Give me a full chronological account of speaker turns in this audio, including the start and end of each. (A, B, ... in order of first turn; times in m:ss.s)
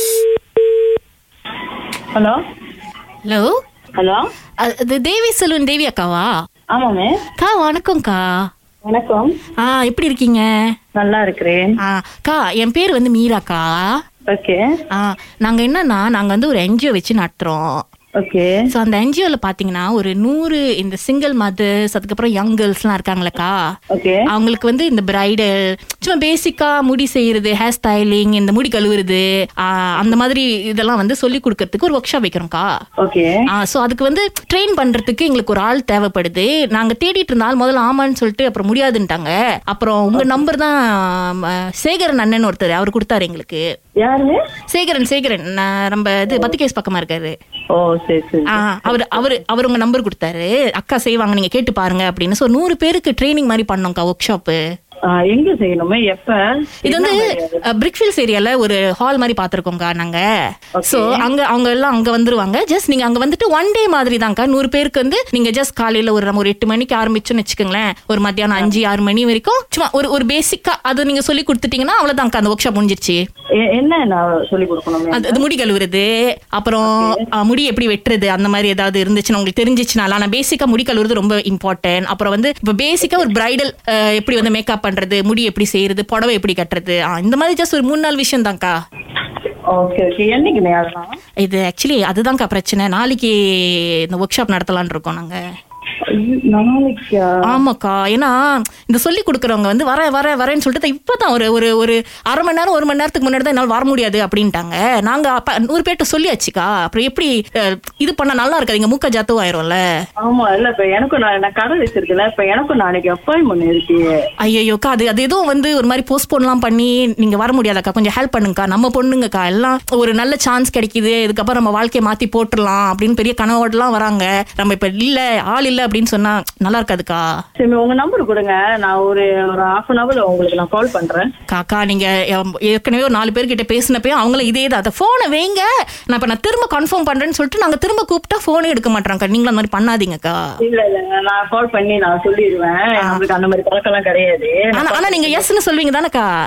0:03.2-0:03.5 A
0:04.0-0:04.2 B
0:04.6-0:06.3 A
0:06.7-0:07.2 B
0:07.4-0:08.5 A
0:08.8-0:09.4 B
0:09.6-0:10.5 A
0:11.0-0:11.8 B
0:11.8-0:13.9 A
0:14.3-0:14.6 B
0:14.9-0:17.8 A
0:18.2-0:18.6 B
0:18.7-0:23.6 A
0:23.9-0:24.2 B
0:24.3-0:32.7 A
0:33.0-0:33.4 B
0:33.5-0:43.6 A
0:40.1-0:40.4 B
0:44.0-0:44.4 B
0:44.7-0:47.3 A
0:46.3-0:46.5 B
0:47.7-0:49.3 B
0:48.5-0:54.6 A
0:55.1-0:57.6 B
0:56.8-1:00.2 A
1:00.8-1:01.2 B
1:00.8-1:13.2 A
1:13.6-1:15.4 B
1:15.1-1:28.7 A
1:16.8-1:17.2 B
1:29.7-1:31.1 B
1:31.4-1:35.4 A
1:36.1-1:37.3 B
1:37.5-1:49.8 A
1:50.2-1:54.0 B
1:54.4-2:07.2 A
2:07.6-2:11.3 B
2:11.5-2:20.4 A
2:20.6-2:25.4 B
2:23.0-2:23.2 A
2:24.7-2:26.3 A